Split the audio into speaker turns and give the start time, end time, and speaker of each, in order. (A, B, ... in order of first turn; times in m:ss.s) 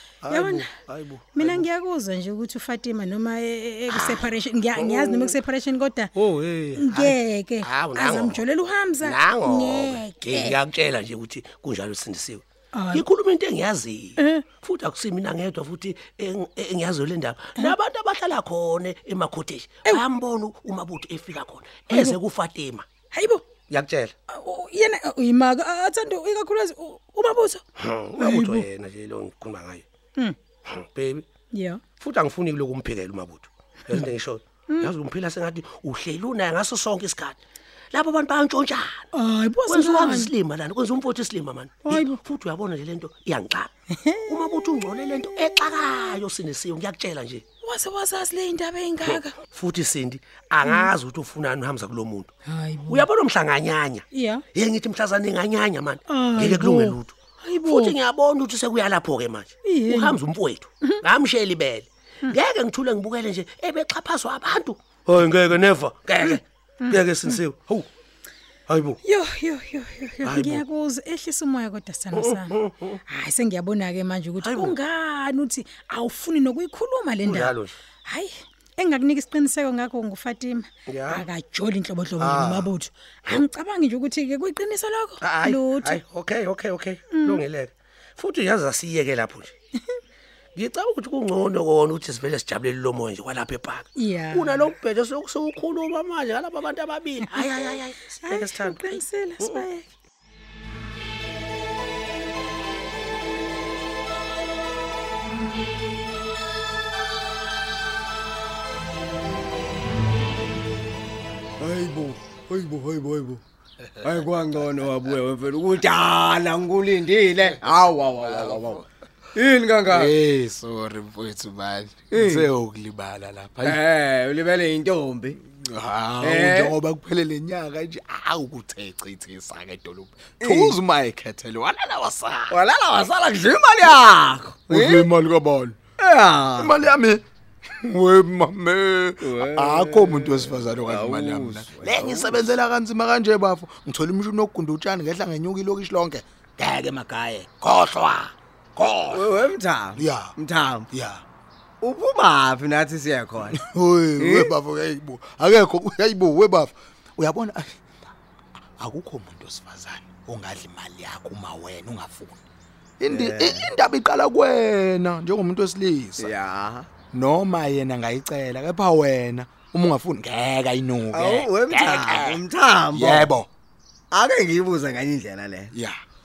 0:00.2-0:01.7 A
0:00.3-0:00.7 B
0:01.4-0:06.1 B
0:03.9-0:05.4 A
0:06.2-0:08.4 A
0:06.8-0:10.6 B
0:09.0-0:22.8 A
0:12.7-0:13.0 B
0:14.2-0:14.4 B
0:21.9-0:22.2 B
0:23.1-0:23.4 B
0:23.7-0:24.1 A
0:24.3-0:27.6 B
0:27.8-0:29.9 A
0:28.2-0:28.7 B
0:30.7-0:31.2 A
0:31.5-0:31.8 B
0:32.0-0:37.4 A
0:37.9-0:39.1 A
0:39.1-0:40.3 B
0:39.7-0:43.7 A
0:41.8-0:42.2 B
0:44.0-0:46.2 B
0:44.3-0:47.4 A
0:47.6-0:49.4 B
0:49.0-0:52.3 A
0:50.6-0:50.9 B
0:52.5-0:53.1 B
0:52.9-1:07.9 A
0:54.1-0:54.4 B
0:56.1-0:58.0 B
0:59.6-1:00.2 B
1:06.2-1:07.4 B
1:08.7-1:09.0 A
1:09.0-1:12.5 B
1:10.2-1:10.6 A
1:12.1-1:13.0 A
1:13.1-1:26.0 B
1:14.4-1:14.7 A
1:17.2-1:17.8 A
1:20.9-1:21.2 A
1:22.2-1:22.7 A
1:25.2-1:29.5 A
1:27.1-1:27.4 B
1:30.6-1:39.7 A
1:34.0-1:34.7 B
1:37.2-1:39.9 B
1:51.6-1:53.4 C
1:54.0-2:00.1 C
1:58.2-1:58.8 D
1:59.9-2:03.8 D
2:02.1-2:02.5 C
2:03.6-2:05.4 C
2:05.4-2:12.6 D
2:06.2-2:06.8 C
2:10.4-2:10.8 C
2:12.5-2:15.1 C
2:14.7-2:15.8 D
2:16.0-2:16.8 C
2:16.6-2:17.2 D
2:17.8-2:30.4 D
2:19.2-2:22.4 C
2:29.1-2:30.9 C
2:30.9-2:31.2 D
2:31.8-2:33.6 C
2:33.5-2:37.9 D
2:34.2-2:34.5 C
2:38.8-2:42.4 D
2:43.0-2:46.3 D
2:43.1-2:43.7 C
2:46.2-2:46.9 C
2:47.1-2:53.5 D
2:51.1-2:53.3 C
2:54.1-2:55.7 C
2:55.7-2:56.0 D